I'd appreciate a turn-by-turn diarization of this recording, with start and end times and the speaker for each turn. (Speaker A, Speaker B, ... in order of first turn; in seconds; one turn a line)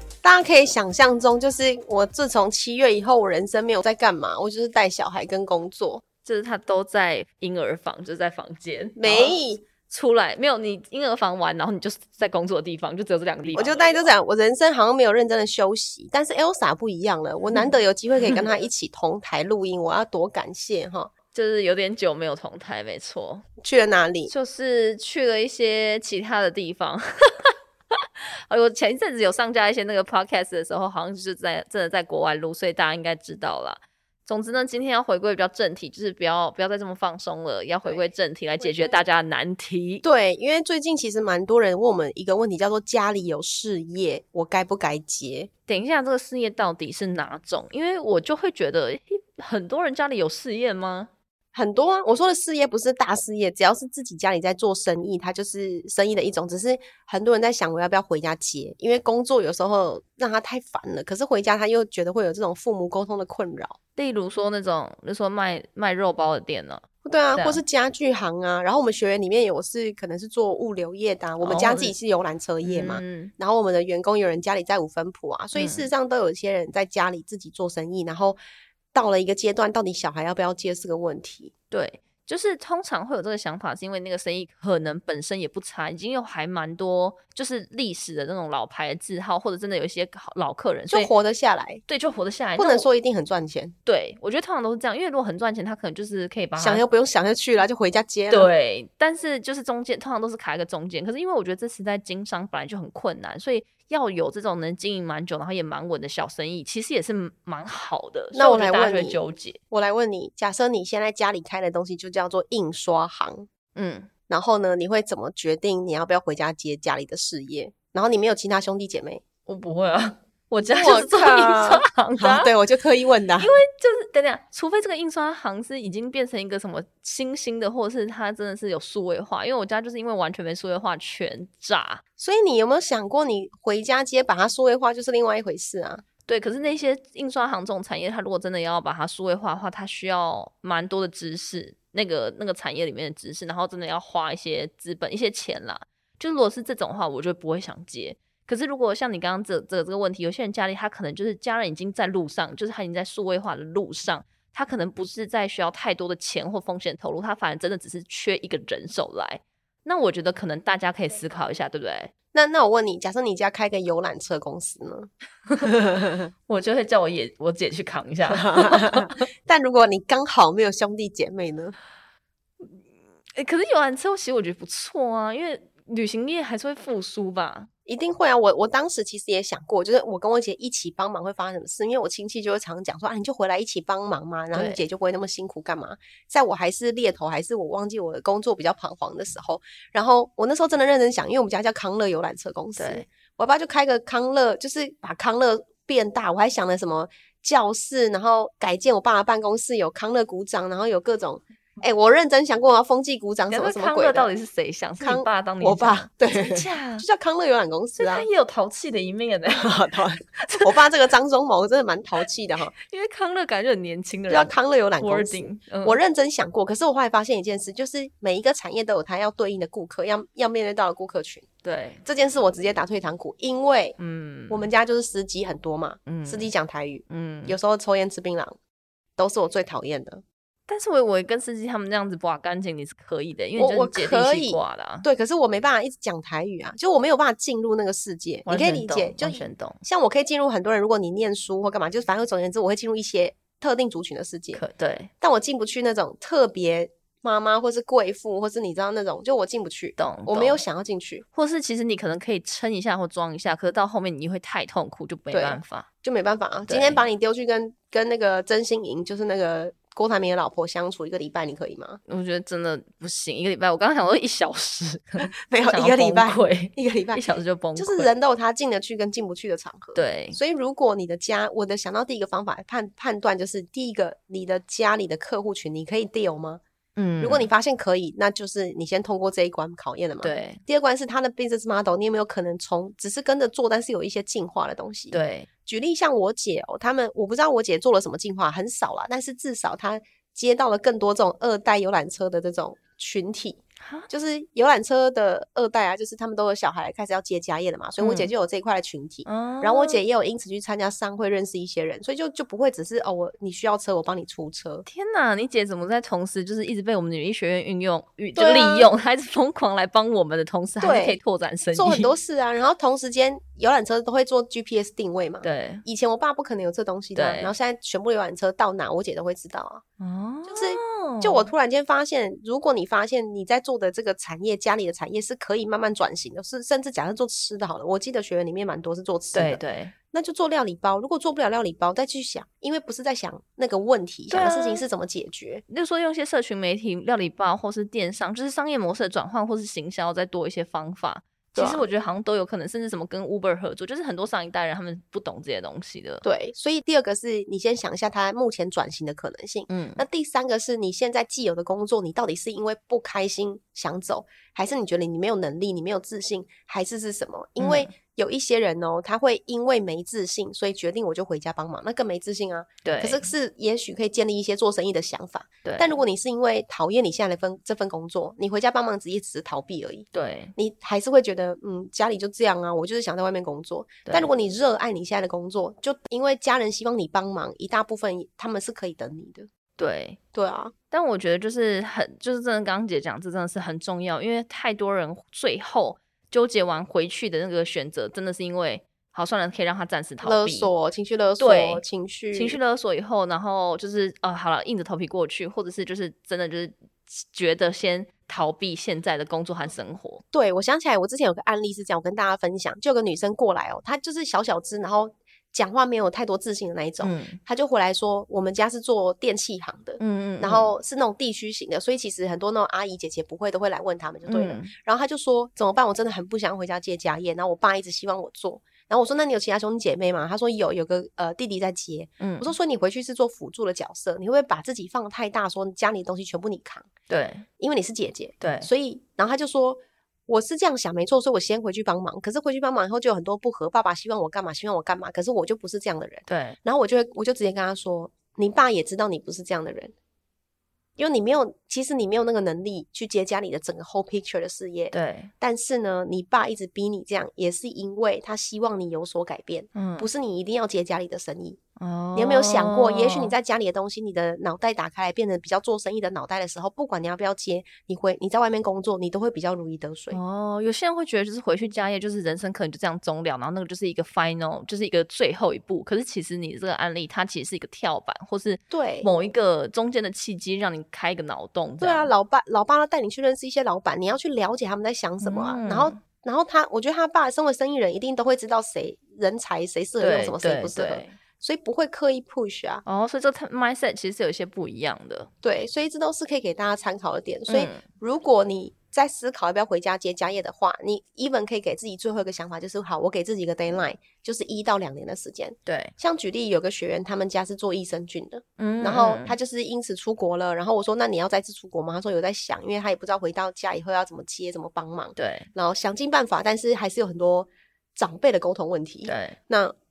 Speaker A: 0.2-6.1
Speaker B: 6.2-14.1
Speaker A: 9.0-9.8
Speaker A: 13.5-21.1
Speaker B: 21.3-23.5
Speaker A: 23.6-24.3
Speaker B: 24.3-40.0
Speaker A: 37.8-39.0
Speaker A: 40.0-45.5
Speaker B: 45.7-51.1
Speaker A: 51.5-63.8
Speaker B: 64.0-67.6
Speaker A: 67.0-78.4
Speaker B: 71.4-72.0
Speaker B: 72.6-73.3
Speaker B: 75.5-75.9
Speaker A: 78.9-81.5
Speaker B: 81.7-91.2
Speaker A: 90.9-91.8
Speaker B: 91.9-92.9
Speaker A: 92.6-93.7
Speaker B: 93.8-96.9
Speaker A: 96.6-98.5
Speaker B: 98.3-109.6
Speaker A: 108.3-113.5
Speaker B: 113.7-114.2
Speaker A: 114.2-119.2
Speaker B: 119.5-122.5
Speaker A: 120.7-123.5
Speaker B: 123.4-132.0
Speaker A: 132.2-136.1
Speaker B: 136.2-162.1
Speaker A: 162.3-165.1
Speaker A: 165.6-166.3
Speaker B: 166.5-169.3
Speaker A: 168.3-171.8
Speaker B: 173.4-177.7
Speaker A: 177.9-204.3
Speaker B: 184.5-184.8
Speaker B: 192.8-193.1
Speaker B: 203.5-207.1
Speaker A: 205.0-208.3
Speaker B: 208.0-210.9
Speaker A: 209.5-212.8
Speaker B: 212.7-216.0
Speaker A: 214.3-221.5
Speaker B: 221.6-222.0
Speaker A: 222.0-224.0
Speaker B: 224.0-224.7
Speaker A: 224.5-228.6
Speaker B: 226.1-226.5
Speaker B: 227.1-227.6
Speaker A: 229.2-230.2
Speaker B: 230.7-235.1
Speaker A: 233.6-244.6
Speaker B: 238.5-239.8
Speaker B: 244.5-245.1
Speaker A: 245.2-251.2
Speaker B: 250.0-250.6
Speaker B: 251.3-255.9
Speaker A: 255.3-262.0
Speaker B: 256.7-257.1
Speaker B: 262.1-268.1
Speaker A: 265.3-267.2
Speaker A: 267.8-276.6
Speaker B: 269.9-270.4
Speaker B: 276.9-277.5
Speaker A: 277.2-304.9
Speaker B: 280.2-280.6
Speaker B: 285.1-285.5
Speaker B: 293.8-294.1
Speaker B: 298.0-298.3
Speaker B: 299.3-300.0
Speaker B: 304.9-312.1
Speaker A: 308.4-308.9
Speaker A: 310.8-311.2
Speaker A: 311.7-319.8
Speaker B: 315.4-315.9
Speaker B: 317.1-317.6
Speaker B: 320.0-321.5
Speaker A: 320.5-335.6
Speaker B: 329.3-330.0
Speaker B: 334.3-334.9
Speaker B: 335.7-346.2
Speaker A: 341.5-341.9
Speaker A: 346.2-379.5
Speaker B: 349.7-350.1
Speaker B: 357.6-358.0
Speaker B: 362.8-363.3
Speaker B: 365.6-366.0
Speaker B: 370.1-370.6
Speaker B: 374.1-374.3
Speaker B: 379.8-380.2
Speaker A: 380.3-380.8
Speaker B: 380.9-390.7
Speaker A: 390.2-392.6
Speaker B: 391.4-400.2
Speaker A: 400.3-426.9
Speaker B: 407.0-407.4
Speaker B: 410.0-410.8
Speaker B: 414.2-414.7
Speaker B: 422.2-422.6
Speaker B: 427.1-427.5
Speaker A: 427.5-439.9
Speaker B: 428.4-428.7
Speaker B: 436.3-436.6
Speaker A: 441.0-451.6
Speaker B: 444.9-445.3
Speaker B: 449.7-450.1
Speaker B: 451.8-453.4
Speaker A: 452.1-460.2
Speaker B: 460.1-472.1
Speaker A: 468.7-469.1
Speaker A: 471.8-482.8
Speaker B: 475.2-476.0
Speaker B: 480.0-481.2
Speaker B: 482.9-485.3
Speaker A: 485.4-509.8
Speaker B: 487.5-487.9
Speaker B: 495.7-495.9
Speaker B: 498.6-499.4
Speaker B: 505.2-505.5
Speaker B: 509.1-509.4